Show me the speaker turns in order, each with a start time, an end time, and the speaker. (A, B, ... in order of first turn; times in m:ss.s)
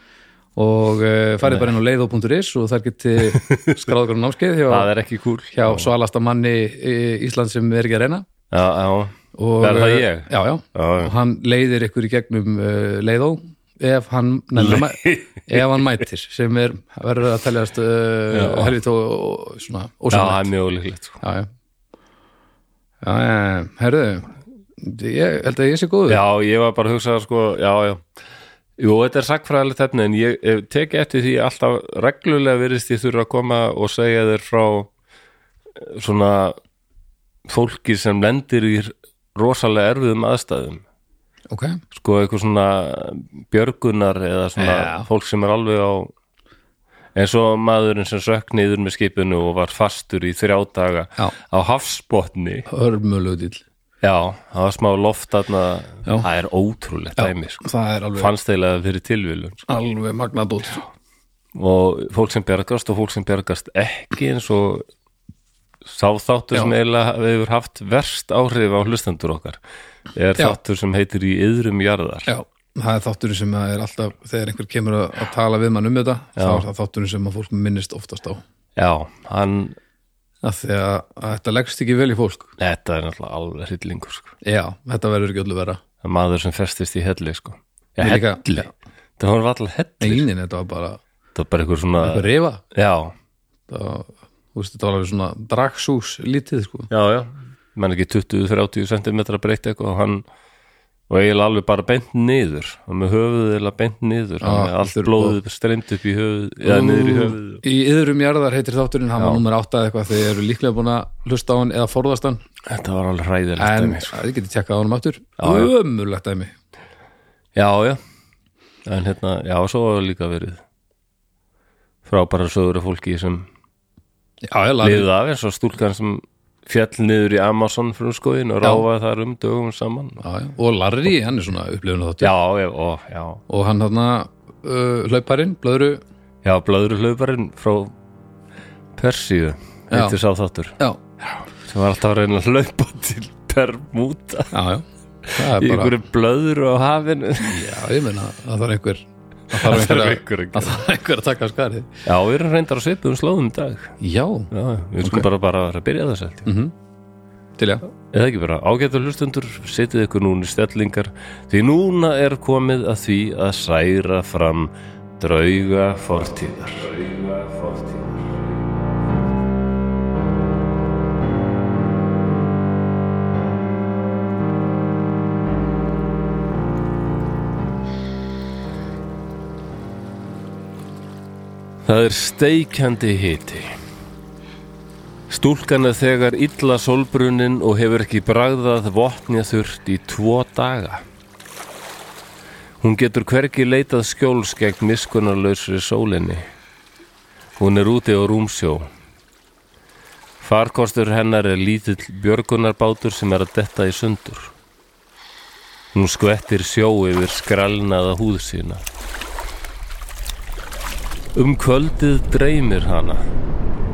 0:00.6-0:04.9 A
0:01.4-0:01.7 B
0:03.3-0:03.6 B
0:04.7-0:05.9 B
0:05.5-0:08.3 A
0:08.5-0:11.1 B
0:09.4-0:20.5 A
0:14.6-0:15.8 B
0:18.3-0:18.8 B
0:20.1-0:21.2 B
0:21.2-0:21.5 A
0:23.0-0:26.2 A
0:26.1-0:28.0 B
0:28.8-0:34.9 B
0:35.8-0:36.6 B
0:37.5-0:40.8 B
0:41.5-0:41.8 A
0:41.9-0:46.1 B
0:44.6-0:45.1 A
0:47.2-0:52.7 B
0:52.7-0:53.6 A
0:54.0-0:57.6 B
0:57.2-0:58.3 A
0:58.2-0:59.6 B
0:59.7-1:00.9 A
1:01.6-1:04.8 B
1:05.8-1:09.6 B
1:10.1-1:12.3 B
1:12.3-1:18.4 A
1:16.4-1:16.6 B
1:18.8-1:19.8 B
1:20.4-1:22.5 A
1:22.6-1:24.3 B
1:24.4-1:25.8 A
1:26.0-1:28.7 B
1:28.0-1:28.7 A
1:29.2-1:30.3 B
1:30.0-1:31.0 A
1:31.4-1:33.1 B
1:32.0-1:32.6 A
1:33.7-1:36.9 A
1:36.9-1:40.2 B
1:41.1-1:47.6 B
1:44.4-1:45.4 A
1:46.6-1:52.4 A
1:49.2-1:49.4 B
1:52.6-1:54.2 B
1:53.6-1:56.5 A
1:55.4-1:55.7 B
1:57.6-1:58.0 B
1:58.8-2:00.6 B
2:02.0-2:03.5 B
2:04.4-2:05.1 A
2:04.8-2:10.2 B
2:10.2-2:12.3 A
2:12.2-2:13.4 B
2:13.5-2:16.0 A
2:16.4-2:17.9 B
2:19.0-2:20.8 B
2:19.9-2:20.2 A
2:21.7-2:24.5 B
2:24.5-2:26.0 A
2:25.3-2:27.7 B
2:27.4-2:31.9 A
2:29.5-2:30.8 B
2:32.1-2:33.9 B
2:34.0-2:34.5 A
2:34.5-2:36.5 B
2:35.0-2:35.3 A
2:36.5-2:36.7 A
2:37.6-2:37.8 A
2:38.1-2:49.2 B
3:01.8-3:03.7 B
3:05.3-3:11.0 B
3:12.8-3:16.4 B
3:17.6-3:18.9 B
3:20.4-3:24.5 B
3:25.9-3:28.8 B
3:31.3-3:33.2 B